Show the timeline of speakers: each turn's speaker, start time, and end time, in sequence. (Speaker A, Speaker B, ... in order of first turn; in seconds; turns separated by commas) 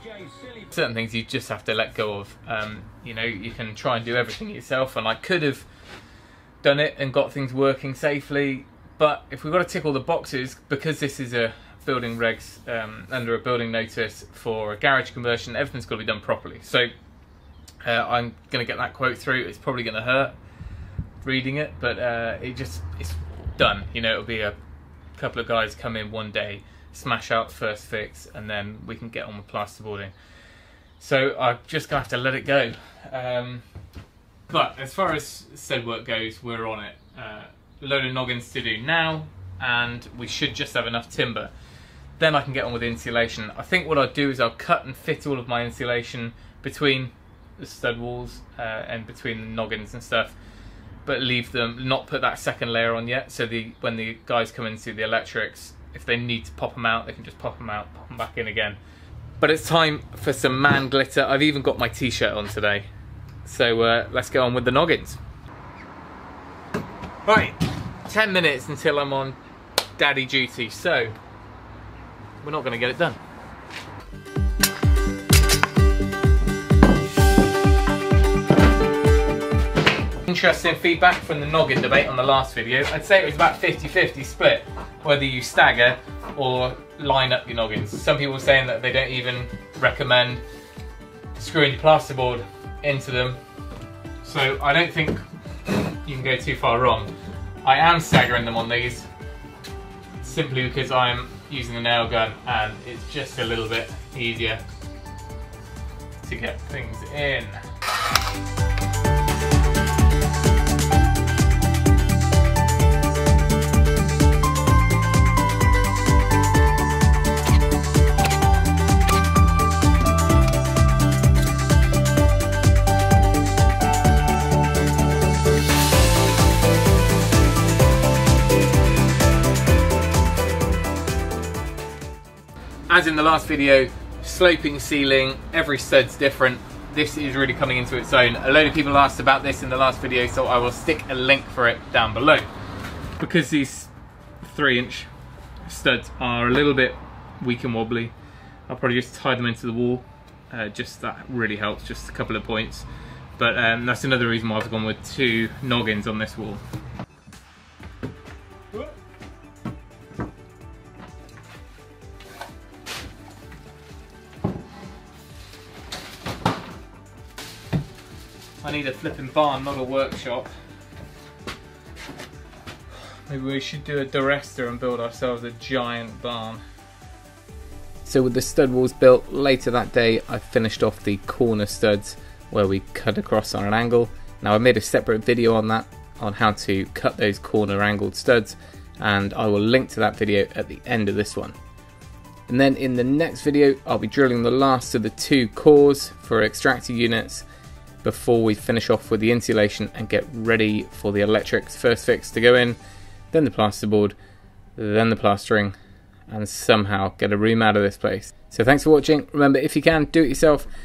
Speaker A: 0.5-5.7, Speaker A: 6.6-16.9, Speaker A: 17.8-20.4, Speaker A: 21.2-24.6, Speaker A: 25.1-30.1, Speaker A: 31.0-33.6, Speaker A: 34.5-41.5, Speaker A: 42.2-50.3, Speaker A: 51.0-58.8, Speaker A: 59.4-62.9, Speaker A: 63.4-65.2, Speaker A: 67.2-69.4, Speaker A: 70.0-71.1, Speaker A: 72.4-73.2, Speaker A: 80.2-90.4, Speaker A: 91.4-93.4, Speaker A: 94.2-95.2, Speaker A: 95.7-97.1, Speaker A: 97.6-99.1, Speaker A: 100.2-104.6, Speaker A: 106.2-107.6, Speaker A: 132.9-142.4, Speaker A: 143.2-145.1, Speaker A: 145.6-148.1, Speaker A: 148.7-152.9, Speaker A: 153.4-156.6, Speaker A: 168.6-170.5, Speaker A: 173.1-176.6, Speaker A: 178.1-191.6, Speaker A: 192.5-197.4, Speaker A: 198.0-202.8, Speaker A: 203.3-204.2, Speaker A: 204.8-205.7, Speaker A: 206.3-210.7